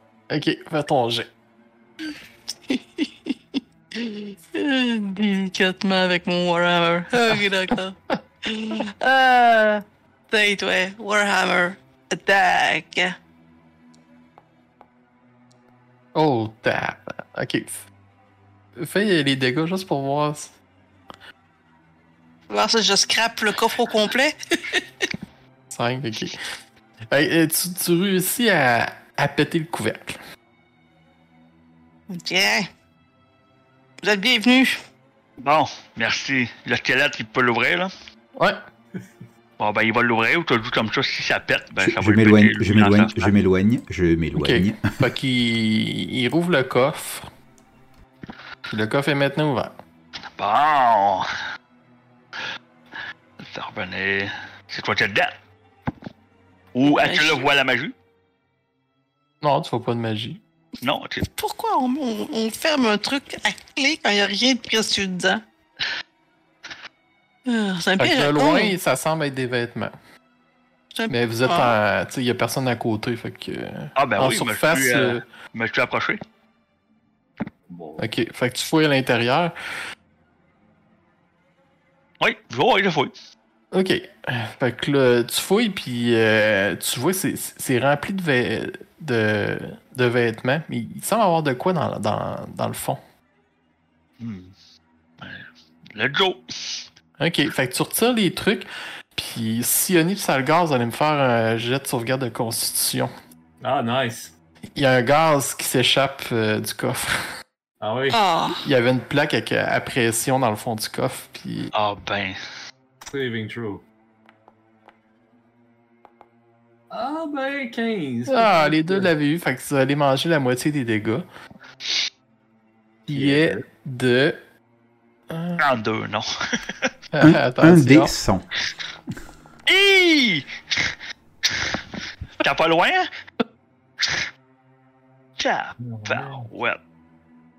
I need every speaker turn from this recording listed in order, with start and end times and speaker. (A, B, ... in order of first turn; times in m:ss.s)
0:00.3-0:01.3 A
0:02.7-0:13.2 B
0:16.1-0:17.8 A
0:18.8-0:20.5 A
0:22.5-0:25.1 B
0:25.7-0:26.4 A
0:27.1-0:30.2 A
0:32.1-0:32.7 B
0:34.0-0:34.8 B
0:35.4-0:37.9 C
0:39.6-0:43.3 C
0:41.8-0:44.8 D
0:44.4-0:47.3 A
0:48.7-0:49.7 A
0:50.4-0:51.3 C
0:53.4-0:55.3 C
0:56.7-0:57.9 C
0:56.8-0:57.5 B
0:59.4-1:00.4 A
1:00.8-1:01.2 C
1:01.3-1:05.4 B
1:07.4-1:08.7 B
1:08.0-1:09.9 A
1:10.9-1:11.8 B
1:11.1-1:15.2 A
1:14.0-1:16.2 C
1:17.7-1:18.1 E
1:18.0-1:19.5 A
1:22.2-1:23.1 C
1:23.7-1:33.0 A
1:34.2-1:34.5 C
1:35.2-1:36.8 C
1:37.2-1:43.1 A
1:43.6-1:44.3 E
1:44.8-1:47.3 A
1:47.8-1:48.2 E
1:48.1-1:48.6 B
1:48.6-1:51.7 A
1:51.7-1:52.4 C
1:53.0-1:53.8 E
1:56.9-1:59.1 E
1:58.3-2:01.2 A
2:03.1-2:04.4 A
2:03.1-2:03.6 E
2:05.3-2:05.6 A
2:05.6-2:06.9 C
2:07.1-2:08.1 A
2:07.2-2:08.4 D
2:09.7-2:10.8 C
2:12.4-2:13.1 C
2:15.4-2:16.8 C
2:15.8-2:16.5 E